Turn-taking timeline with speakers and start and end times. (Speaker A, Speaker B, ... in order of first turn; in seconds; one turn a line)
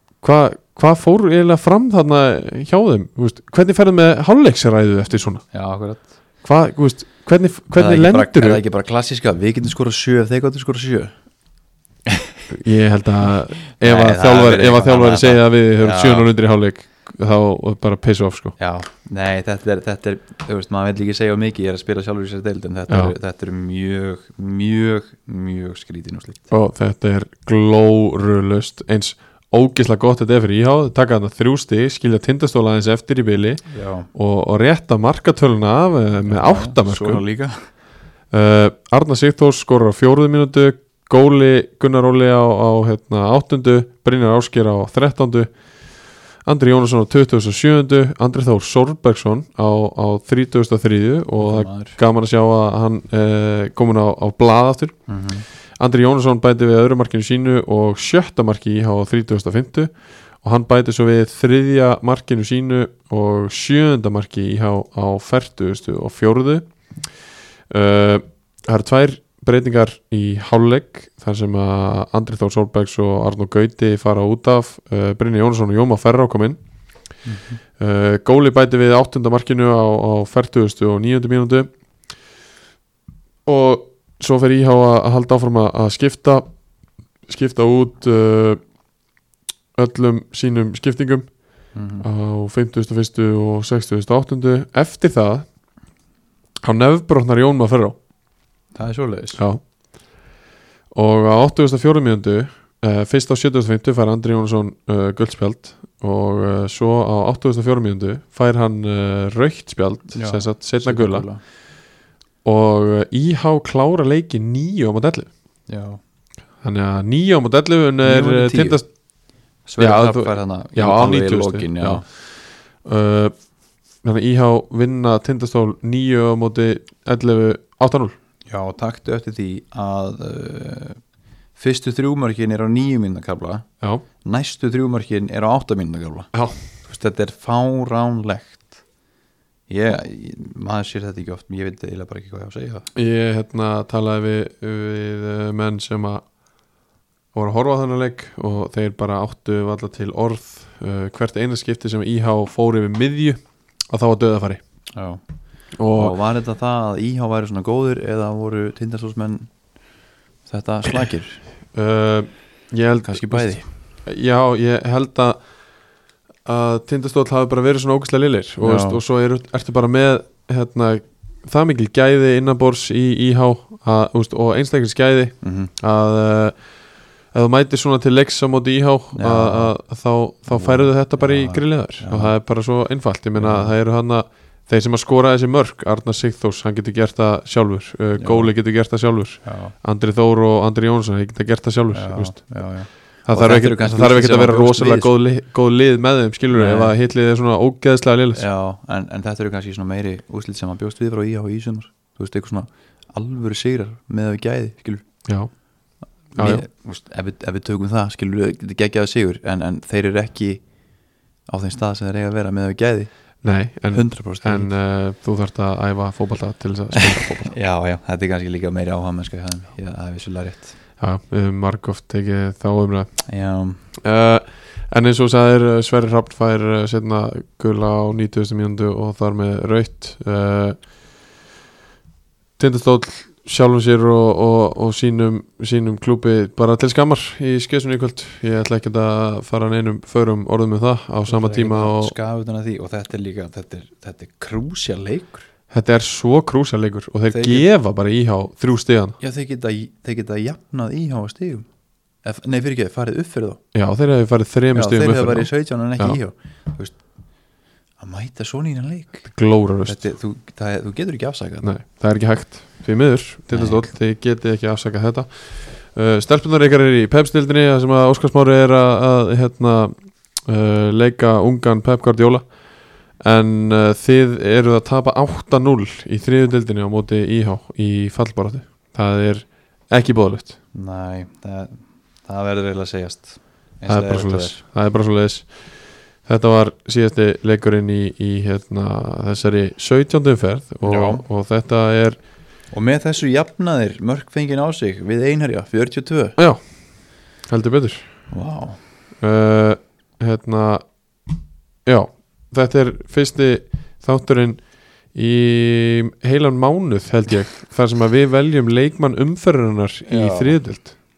Speaker A: 0.2-5.5
Speaker B: 5.5-6.1
Speaker A: 6.4-8.6
Speaker B: 7.8-11.1
Speaker A: 12.5-18.6
Speaker B: 13.8-16.3
Speaker B: 18.6-26.5
Speaker A: 22.9-23.1
Speaker A: 26.5-37.2
Speaker B: 33.7-34.1
Speaker B: 36.2-37.6
Speaker A: 38.3-45.5
Speaker A: 46.4-55.0
Speaker B: 51.4-52.0
Speaker B: 55.1-55.5
Speaker A: 55.8-66.8
Speaker A: 67.7-76.6
Speaker B: 77.2-77.6
Speaker A: 77.8-81.7
Speaker A: 83.4-86.5
Speaker A: 87.2-88.6
Speaker A: 89.7-91.4
Speaker B: 91.7-92.0
Speaker A: 92.0-95.5
Speaker A: 96.6-98.0
Speaker B: 98.7-99.4
Speaker A: 99.4-99.6
Speaker A: 100.9-111.3
Speaker B: 110.1-111.4
Speaker A: 112.4-115.3
Speaker B: 115.7-116.0
Speaker A: 116.6-118.9
Speaker B: 118.0-118.8
Speaker B: 119.6-122.0
Speaker A: 119.8-123.3
Speaker A: 124.0-128.2
Speaker B: 128.5-131.0
Speaker B: 131.6-133.7
Speaker B: 134.2-136.3
Speaker B: 136.8-138.8
Speaker B: 139.7-142.9
Speaker A: 142.9-146.2
Speaker A: 147.3-154.6
Speaker B: 154.9-155.2
Speaker A: 155.8-156.2
Speaker B: 155.9-159.5
Speaker B: 160.4-161.4
Speaker A: 161.7-165.4
Speaker B: 163.0-163.7
Speaker A: 166.4-176.7
Speaker B: 168.6-169.0
Speaker B: 175.4-175.7
Speaker A: 177.3-192.6
Speaker B: 179.1-179.8
Speaker B: 180.5-182.3
Speaker B: 183.3-183.7
Speaker B: 188.2-188.5
Speaker B: 189.4-189.7
Speaker B: 191.9-195.1
Speaker A: 193.2-198.4
Speaker B: 196.5-196.9
Speaker B: 198.3-205.1
Speaker A: 205.2-205.5
Speaker B: 206.3-210.7
Speaker A: 206.4-206.6
Speaker B: 211.4-213.1
Speaker A: 213.4-217.5
Speaker B: 213.9-214.7
Speaker B: 216.9-220.8
Speaker A: 221.0-223.2
Speaker B: 223.3-223.9
Speaker A: 223.9-230.8
Speaker A: 232.6-242.1
Speaker B: 241.2-245.4
Speaker A: 245.7-249.2
Speaker B: 247.3-247.7
Speaker B: 249.2-251.7
Speaker B: 252.2-253.6
Speaker A: 253.7-256.2
Speaker B: 254.7-257.0
Speaker B: 258.0-259.3
Speaker A: 259.3-260.1
Speaker B: 259.8-261.7
Speaker A: 261.6-272.4
Speaker B: 263.5-263.8
Speaker A: 273.2-280.6
Speaker B: 280.7-284.6
Speaker A: 283.9-285.5
Speaker A: 286.2-292.2
Speaker B: 290.8-291.2
Speaker B: 292.7-296.4
Speaker A: 296.4-296.6
Speaker A: 297.4-298.1
Speaker B: 298.3-298.8
Speaker A: 299.2-300.8
Speaker A: 301.8-310.9
Speaker B: 310.1-310.6